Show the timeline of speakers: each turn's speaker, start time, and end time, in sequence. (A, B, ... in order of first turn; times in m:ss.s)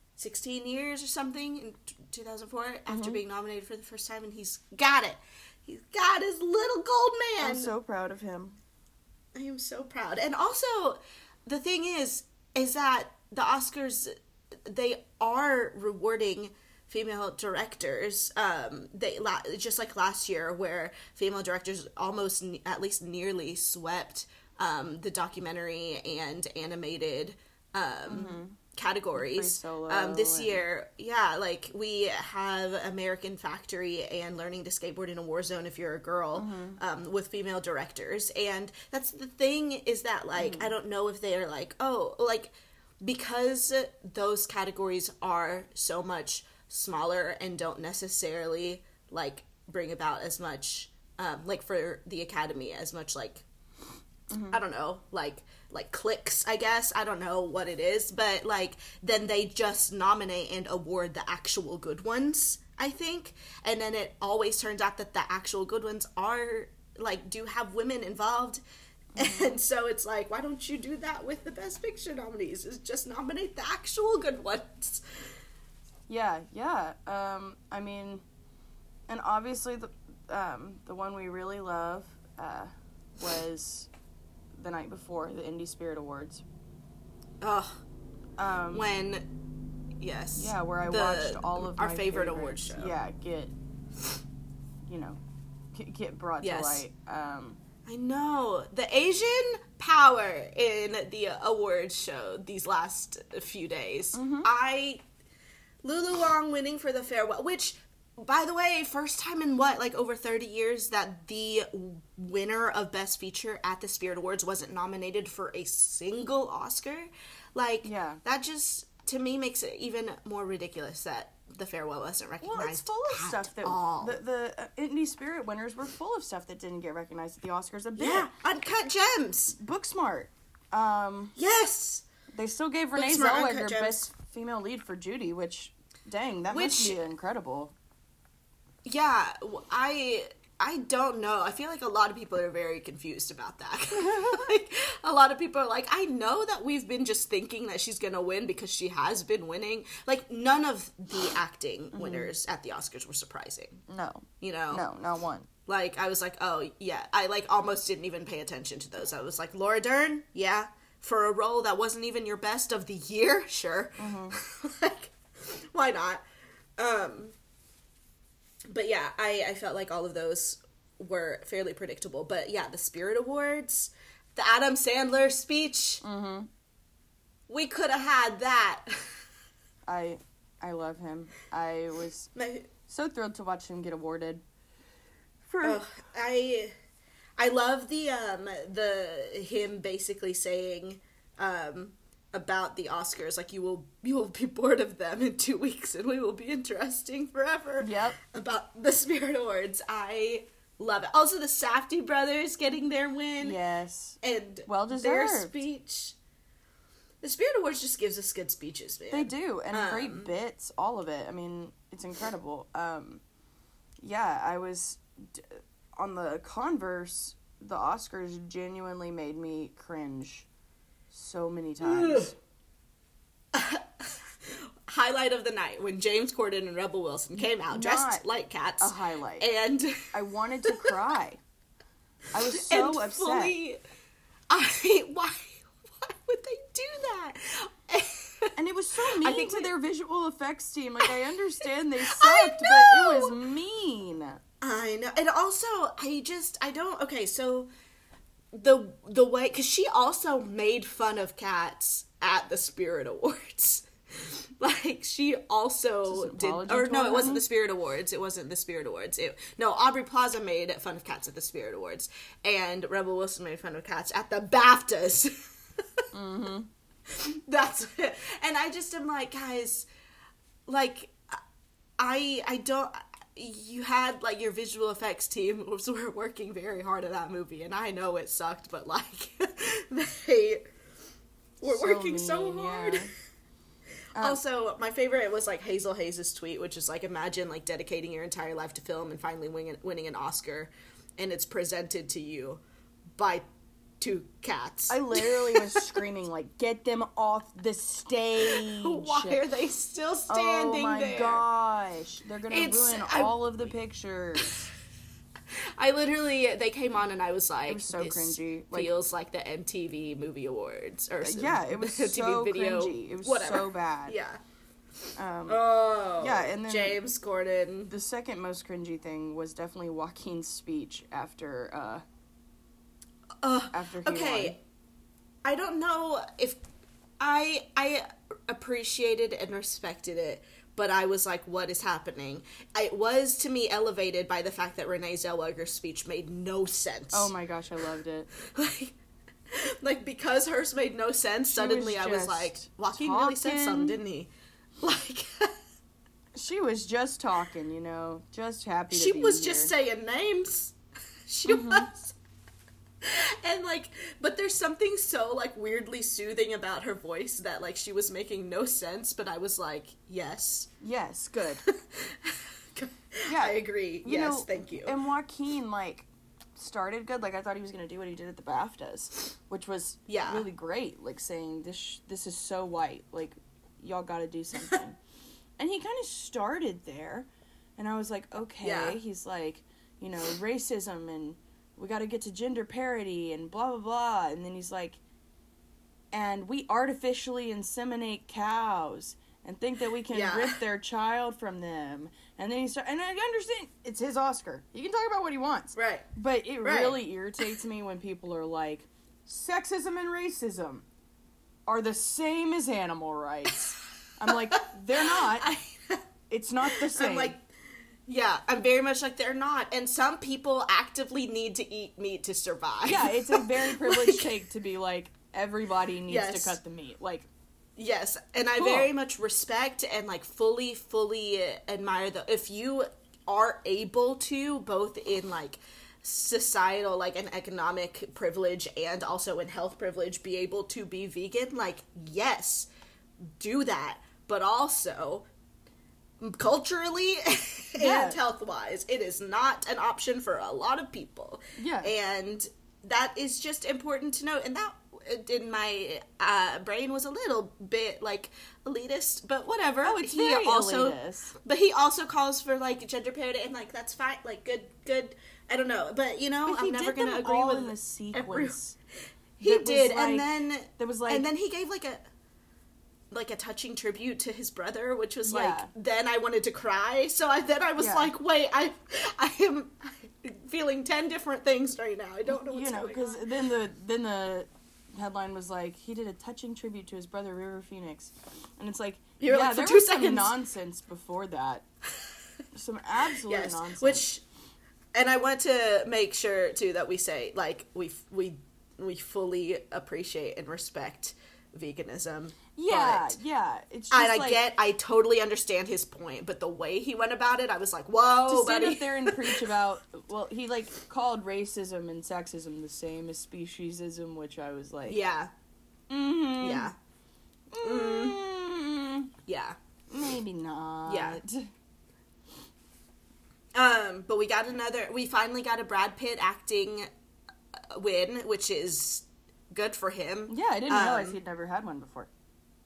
0:00.2-0:07.7 A
0:02.9-0:03.2 B
0:07.4-0:08.6 B
0:09.4-0:14.1 A
0:14.6-0:53.4 A
0:28.1-0:28.6 B
0:29.2-0:30.6 B
0:36.4-0:36.8 B
0:40.4-0:40.7 B
0:54.3-0:54.6 B
0:54.5-1:08.6 A
1:09.2-1:09.6 B
1:09.2-1:15.0 A
1:16.1-1:18.2 B
1:19.1-1:23.9 B
1:24.6-1:26.4 B
1:27.4-1:27.8 A
1:28.4-1:28.9 B
1:28.7-1:29.2 A
1:30.0-1:32.9 A
1:30.4-1:33.5 B
1:34.8-1:35.2 B
1:35.7-1:37.6 B
1:36.4-1:36.8 A
1:37.9-1:45.0 A
1:44.1-1:44.5 B
1:45.8-2:04.2 A
1:57.8-1:58.2 B
2:02.4-2:08.3 B
2:08.0-2:09.6 A
2:09.6-2:11.3 B
2:11.4-2:12.0 A
2:12.3-2:17.8 B
2:13.0-2:14.1 A
2:16.5-2:17.0 A
2:18.9-2:33.8 A
2:23.9-2:24.5 B
2:31.9-2:32.3 B
2:33.9-2:35.5 B
2:34.4-2:34.8 A
2:35.7-2:46.2 A
2:44.0-2:44.4 B
2:46.8-2:47.3 A
2:48.7-2:56.0 A
2:56.0-2:56.5 B
2:57.5-2:59.2 A
2:59.9-3:02.3 B
3:02.4-3:02.7 A
3:02.9-3:04.4 B
3:05.5-3:05.8 B
3:05.6-3:06.7 A
3:07.4-3:23.6 A
3:17.8-3:18.2 B
3:23.4-3:25.6 B
3:24.2-3:26.2 A
3:27.2-3:30.3 A
3:29.1-3:33.2 B
3:34.0-3:40.5 B
3:41.1-3:42.4 B
3:41.8-3:42.3 A
3:43.5-3:50.1 A
3:47.4-3:48.2 B
3:48.8-3:49.5 B
3:50.1-3:51.4 B
3:50.6-3:50.9 A
3:52.3-3:53.6 B
3:52.5-3:53.8 A
3:54.5-3:58.5 A
3:58.6-4:04.4 B
3:59.0-3:59.7 A
4:02.0-4:03.4 A
4:04.6-4:07.7 A
4:08.5-4:25.3 A
4:16.1-4:17.4 B
4:26.1-4:26.7 B
4:27.1-4:29.9 A
4:30.7-4:31.4 A
4:32.0-4:40.7 A
4:41.6-4:43.1 A
4:41.6-4:43.1 B
4:44.2-4:44.4 B
4:44.2-4:52.6 A
4:53.2-4:53.4 A
4:54.0-4:56.0 A
4:54.9-4:59.4 B
4:58.4-5:01.4 A
5:00.3-5:04.7 B
5:02.5-5:03.7 A
5:05.8-5:14.4 A
5:07.7-5:08.9 B
5:11.2-5:14.2 B
5:15.2-5:15.6 B
5:15.5-5:17.9 A
5:16.2-5:17.0 B
5:17.9-5:22.0 B
5:23.4-5:24.6 A
5:23.7-5:24.6 B
5:25.4-5:26.6 A
5:27.2-5:37.3 A
5:37.1-5:38.3 B
5:38.4-5:39.0 A
5:39.5-5:44.3 A
5:41.5-5:44.0 B
5:44.8-5:45.5 A
5:46.4-5:49.7 B
5:48.9-5:52.2 A
5:51.5-5:51.9 B
5:53.0-6:00.7 A
6:00.8-6:01.6 B
6:01.7-6:05.0 A
6:03.3-6:15.0 B
6:10.1-6:10.4 A
6:15.6-6:25.0 B
6:18.6-6:19.0 A
6:26.1-6:40.8 B
6:30.1-6:30.6 A
6:35.8-6:36.1 A
6:36.6-6:37.0 A
6:41.7-6:45.5 B
6:44.5-6:46.0 A
6:46.3-6:47.4 B
6:46.6-6:47.5 A
6:48.1-6:54.3 A
6:52.9-6:57.3 B
6:56.1-6:56.6 A
6:57.8-7:12.7 A
6:58.6-6:58.9 B
7:13.2-7:15.3 A
7:16.2-7:38.6 A
7:17.8-7:18.2 B
7:21.6-7:21.9 B
7:29.8-7:31.4 B
7:36.5-7:38.8 B
7:39.4-7:42.0 A
7:39.4-7:41.3 B
7:43.1-7:53.2 A
7:45.2-7:45.7 B
7:47.8-7:48.1 B
7:52.3-8:01.7 B
7:59.2-8:00.3 A
8:02.5-8:04.0 B
8:03.3-8:04.2 A
8:05.0-8:13.2 A
8:12.6-8:14.4 B
8:13.9-8:19.5 A
8:18.3-8:25.0 B
8:24.9-8:25.3 A
8:25.9-8:26.7 B
8:26.4-8:26.8 A
8:27.5-8:29.1 B
8:27.6-8:28.2 A
8:29.3-8:29.6 A
8:29.9-8:31.5 B
8:30.9-8:31.2 A
8:33.6-8:36.9 A
8:37.7-8:41.2 A
8:40.3-8:42.1 B